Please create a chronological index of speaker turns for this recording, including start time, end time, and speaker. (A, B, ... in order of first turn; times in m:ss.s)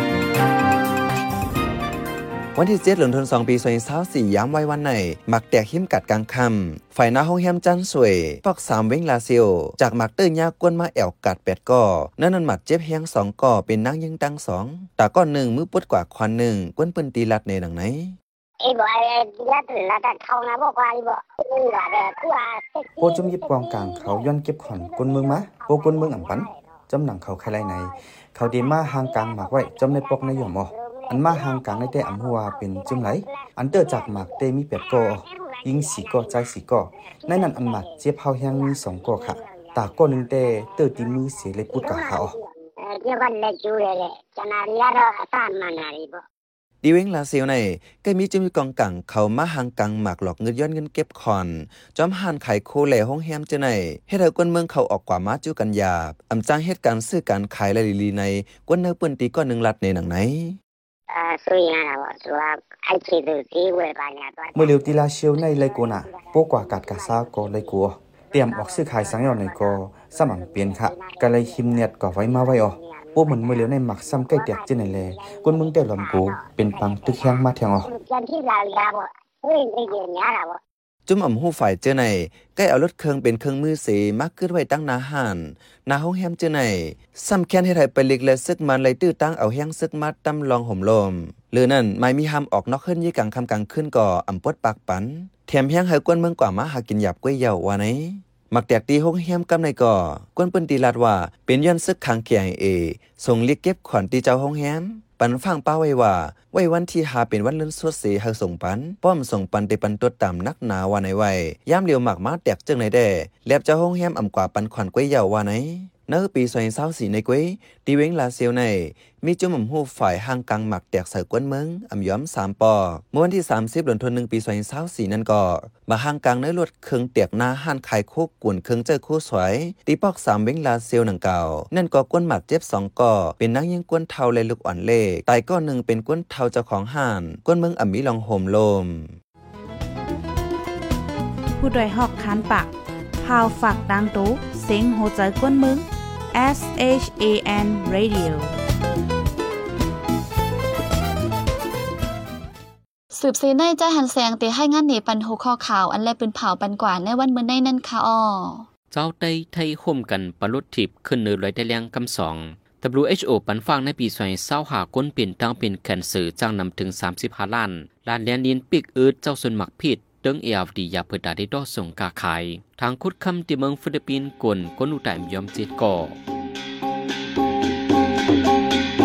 0:02.6-0:18.2 A
0:18.6-0:26.8 B
0:23.0-0:42.3 C
0:27.4-0:46.2 B
0:46.8-1:00.6 A
1:01.1-1:07.8 B
1:04.6-1:17.9 C
1:08.3-1:20.6 B
1:21.1-2:19.2 A
2:21.6-2:28.5 D
2:33.1-2:38.7 E
2:38.9-2:56.2 F